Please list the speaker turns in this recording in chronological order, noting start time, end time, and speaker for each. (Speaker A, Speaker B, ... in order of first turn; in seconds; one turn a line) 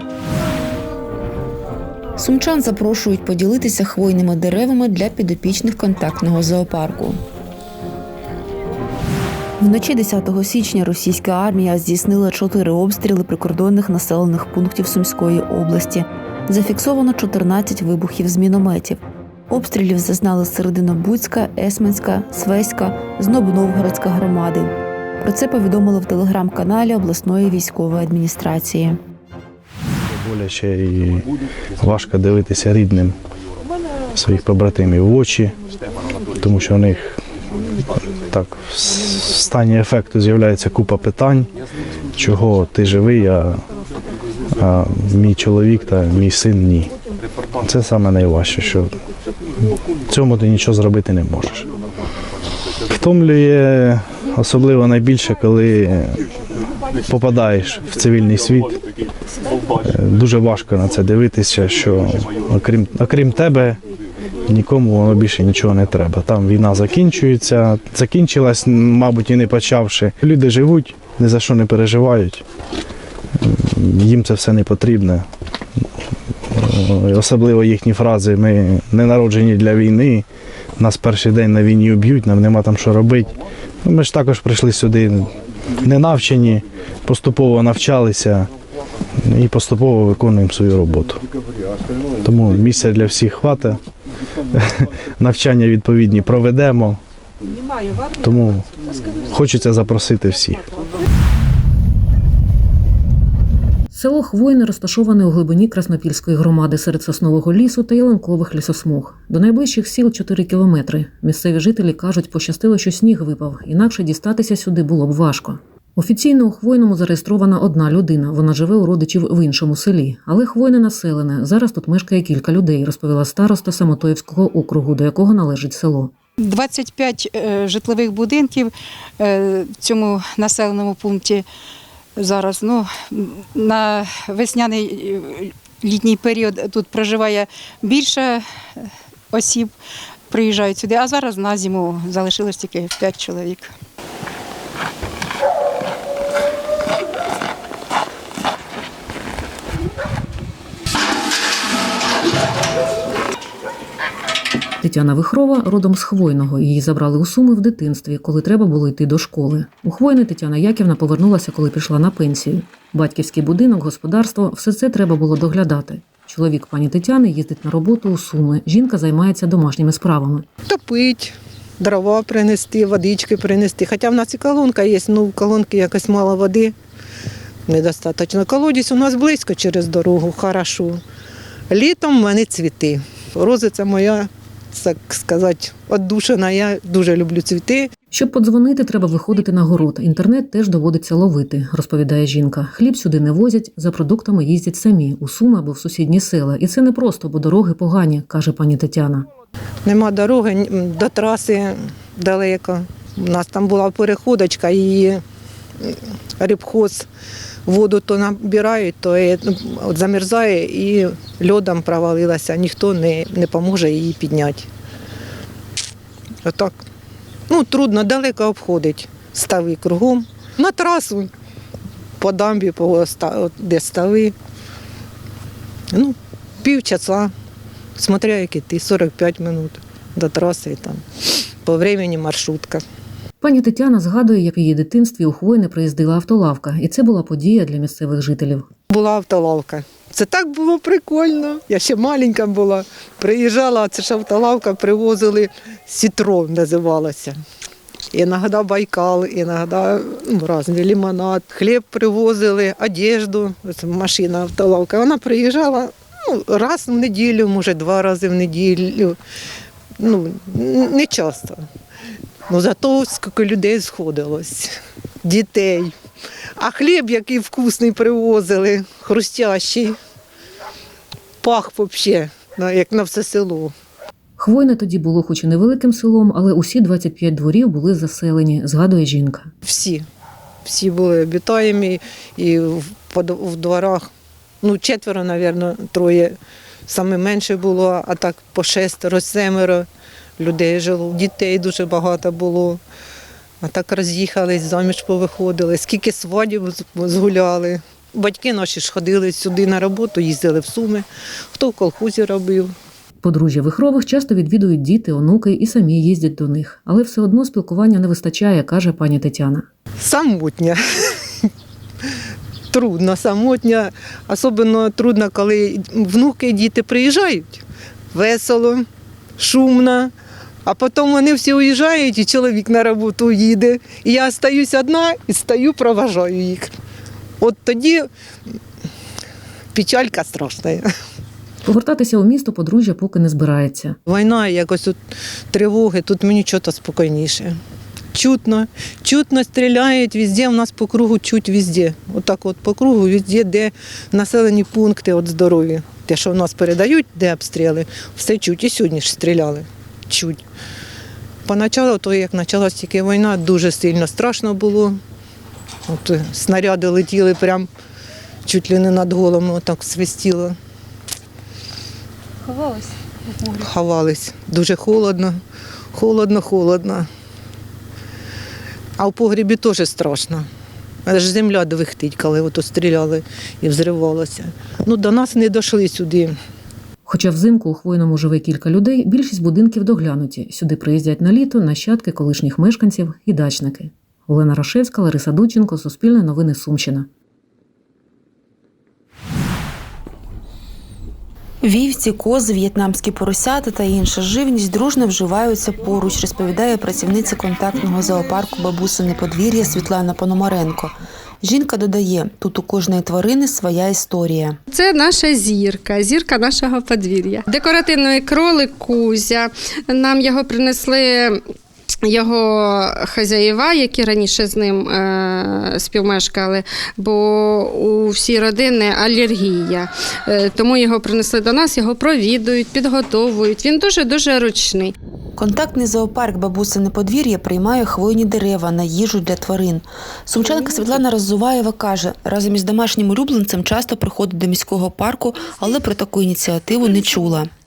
Speaker A: 2.2-7.2
Speaker A: 9.6-29.0
Speaker B: 30.2-31.3
Speaker B: 31.8-33.2
Speaker B: 34.2-35.5
Speaker B: 36.4-37.2
Speaker B: 38.3-41.5
Speaker B: 42.2-43.6
Speaker B: 44.6-46.9
Speaker B: 47.6-49.0
Speaker B: 50.1-51.7
Speaker B: 52.9-56.2
Speaker B: 57.1-58.8
Speaker B: 59.8-63.8
Speaker B: 64.5-72.4
Speaker B: 73.4-75.2
Speaker B: 76.5-80.3
Speaker B: 80.8-83.3
Speaker B: 83.8-85.3
Speaker B: 85.8-88.5
Speaker B: 89.3-91.2
Speaker B: 92.2-93.8
Speaker B: 94.5-97.0
Speaker B: 98.2-98.7
Speaker B: 99.3-100.7
Speaker C: 103.9-126.1
Speaker D: 126.4-131.5
Speaker D: 132.2-139.7
Speaker D: 140.3-143.7
Speaker C: 154.8-170.4
Speaker E: 170.7-176.7
Speaker E: 177.7-181.0
Speaker E: 181.7-187.9
Speaker C: 188.1-199.3
Speaker E: 199.8-205.2
Speaker E: 205.8-207.1
Speaker E: 207.7-214.7
Speaker E: 216.4-216.7
Speaker E: 217.5-221.3
Speaker E: 222.2-224.3
Speaker E: 225.9-227.3
Speaker E: 228.0-231.0
Speaker E: 231.7-232.8
Speaker C: 233.4-238.7
Speaker E: 238.9-247.4
Speaker E: 248.1-259.2
Speaker E: 260.0-261.6
Speaker E: 262.5-264.7
Speaker E: 265.2-265.9
Speaker E: 266.6-270.0
Speaker E: 271.4-273.7
Speaker C: 274.4-279.5
Speaker E: 279.6-280.0
Speaker E: 280.6-284.1
Speaker E: 284.6-286.4
Speaker E: 286.9-289.9
Speaker E: 290.4-292.8
Speaker E: 293.6-302.7
Speaker C: 303.2-309.7
Speaker E: 310.0-310.8
Speaker E: 312.7-317.6
Speaker E: 318.1-318.9
Speaker E: 319.4-320.1
Speaker E: 320.7-326.7
Speaker E: 327.4-328.1
Speaker E: 329.7-330.9
Speaker C: 331.6-334.0
Speaker E: 334.1-335.0
Speaker E: 335.5-337.6
Speaker E: 338.1-350.4
Speaker E: 351.5-355.0
Speaker E: 355.9-357.7
Speaker E: 358.4-360.6
Speaker F: 362.5-362.8
Speaker E: 363.5-365.4
Speaker E: 365.9-367.1
Speaker E: 369.0-370.4
Speaker E: 371.1-376.3
Speaker C: 377.1-387.1
Speaker A: 391.6-404.6
Speaker F: 404.7-411.4
Speaker F: 412.1-424.9
Speaker A: 425.4-437.5